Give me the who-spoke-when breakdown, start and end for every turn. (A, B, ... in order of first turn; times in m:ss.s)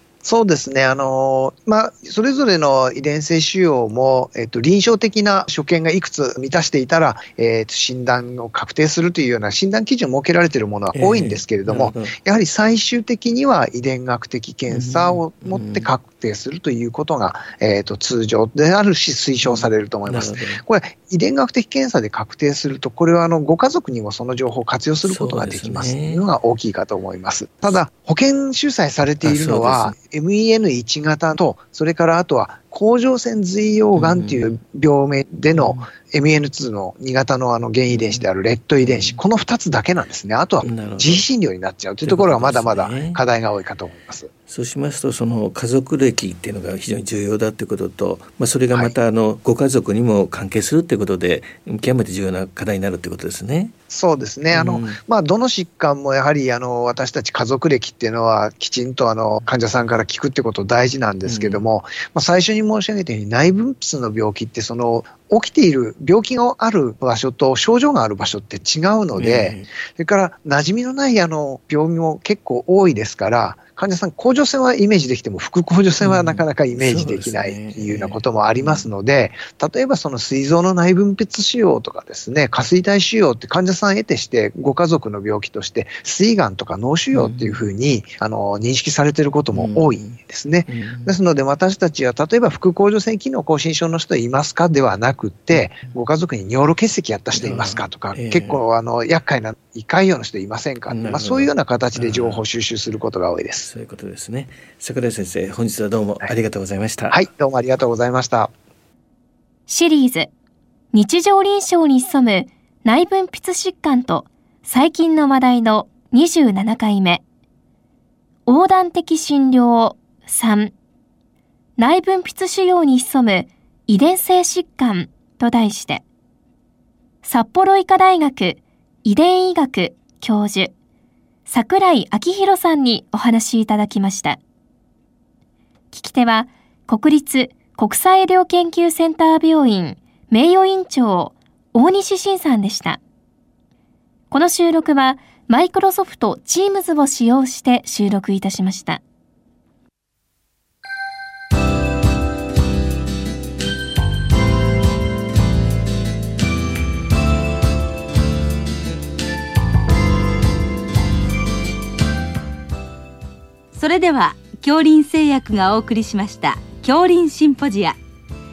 0:00.2-0:44.3 A
0:10.9-0:12.2 B
0:14.7-0:15.9 B
0:19.4-0:20.6 B
0:25.0-0:26.2 B
0:29.2-0:30.0 B
0:34.0-0:34.5 B
0:35.5-0:35.9 B
0:37.9-0:38.3 B
0:38.8-0:39.2 B
0:40.6-0:41.3 B
0:42.0-0:43.2 B
0:44.5-0:53.7 B
0:53.9-1:43.7 A
0:54.5-0:55.0 B
1:01.2-1:01.6 B
1:09.2-1:09.7 B
1:16.0-1:18.9 B
1:27.1-1:27.7 B
1:29.6-1:30.2 B
1:30.7-1:31.2 B
1:37.3-1:38.6 B
1:40.9-1:42.4 B
1:43.7-1:47.2 B
1:47.1-1:48.5 A
1:49.7-1:50.3 C
1:50.9-1:57.2 C
1:58.5-2:00.7 C
2:01.8-2:06.0 C
2:07.2-2:10.7 C
2:11.5-2:14.4 C
2:15.9-2:23.0 C
2:24.3-2:29.0 C
2:43.7-2:48.0 D